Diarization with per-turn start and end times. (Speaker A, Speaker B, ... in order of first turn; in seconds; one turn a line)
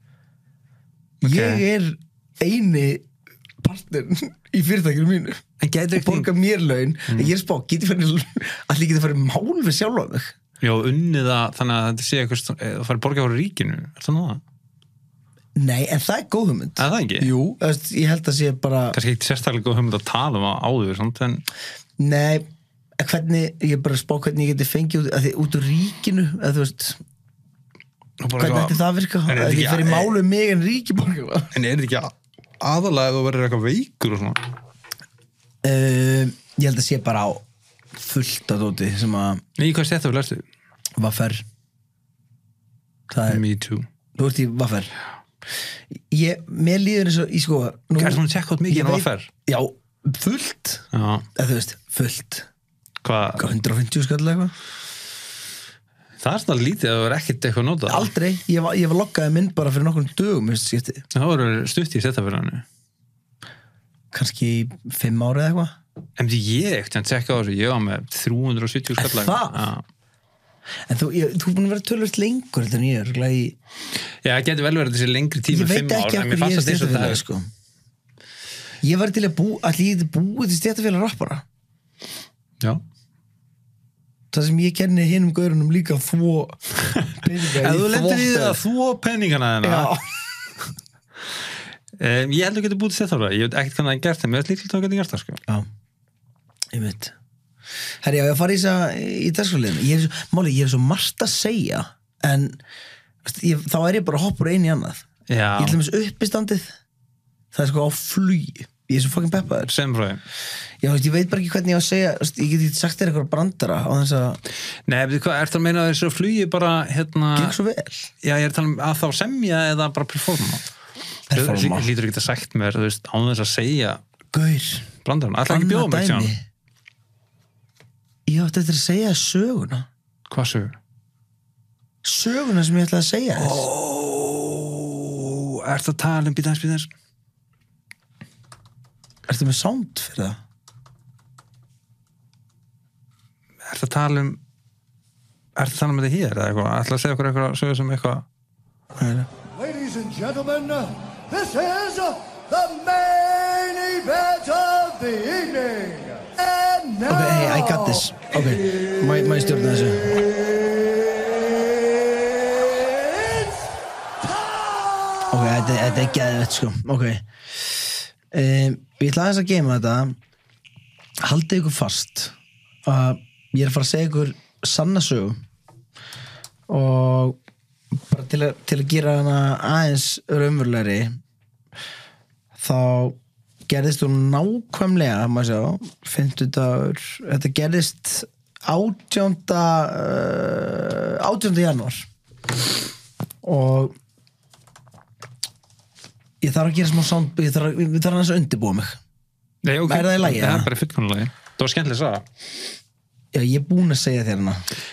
Speaker A: 1.2-1.6
Speaker B: 1.2-3.0
Speaker B: 3.6-5.4
Speaker A: 5.6-6.3
Speaker B: 5.9-10.3
Speaker A: 10.6-14.4
Speaker B: 15.6-19.0
Speaker A: 16.8-17.3
Speaker A: 18.9-21.4
Speaker B: 22.0-22.4
Speaker B: 23.0-27.0
Speaker A: 28.2-30.1
Speaker B: 28.4-31.5
Speaker A: 31.5-34.4
Speaker B: 35.6-39.4
Speaker A: 39.5-40.5
Speaker B: 41.0-41.4
Speaker B: 43.1-43.4
Speaker A: 43.3-43.9
Speaker B: 44.1-44.9
Speaker B: 45.9-52.5
Speaker A: 48.0-49.3
Speaker A: 50.9-51.2
Speaker A: 53.0-53.5
Speaker B: 53.4-54.5
Speaker A: 56.2-58.1
Speaker B: 57.9-61.0
Speaker A: 61.1-62.6
Speaker B: 64.1-65.8
Speaker A: 66.2-69.8
Speaker B: 69.0-69.7
Speaker B: 70.9-73.6
Speaker A: 74.2-77.2
Speaker B: 75.5-77.5
Speaker B: 78.8-81.4
Speaker B: 84.3-88.6
Speaker A: 87.0-89.9
Speaker B: 89.6-90.0
Speaker A: 92.0-95.4
Speaker B: 96.7-97.1
Speaker B: 98.0-102.6
Speaker B: 103.2-105.0
Speaker A: 105.3-105.8
Speaker B: 105.6-106.7
Speaker B: 107.5-109.7
Speaker A: 109.7-110.2
Speaker B: 110.8-114.4
Speaker A: 114.9-117.5
Speaker B: 117.3-118.1
Speaker A: 118.2-120.6
Speaker B: 121.3-121.9
Speaker A: 121.3-124.0
Speaker B: 124.3-124.9
Speaker A: 125.0-126.3
Speaker B: 125.5-126.4
Speaker B: 128.2-129.9
Speaker A: 130.3-130.8
Speaker B: 132.0-133.7
Speaker A: 133.3-136.9
Speaker B: 139.3-140.4
Speaker A: 143.6-144.4
Speaker A: 145.6-148.2
Speaker B: 148.9-149.3
Speaker C: 149.6-157.9
Speaker B: 157.1-160.1
Speaker B: 165.3-167.2
Speaker B: 168.3-170.2
Speaker B: 171.2-175.3
Speaker B: 176.7-177.4
Speaker B: 177.9-181.2
Speaker B: 182.6-183.2
Speaker B: 183.7-192.1
Speaker B: 193.4-193.9
Speaker B: 196.4-199.0
Speaker A: 199.6-202.2
Speaker B: 199.9-200.7
Speaker B: 203.3-204.6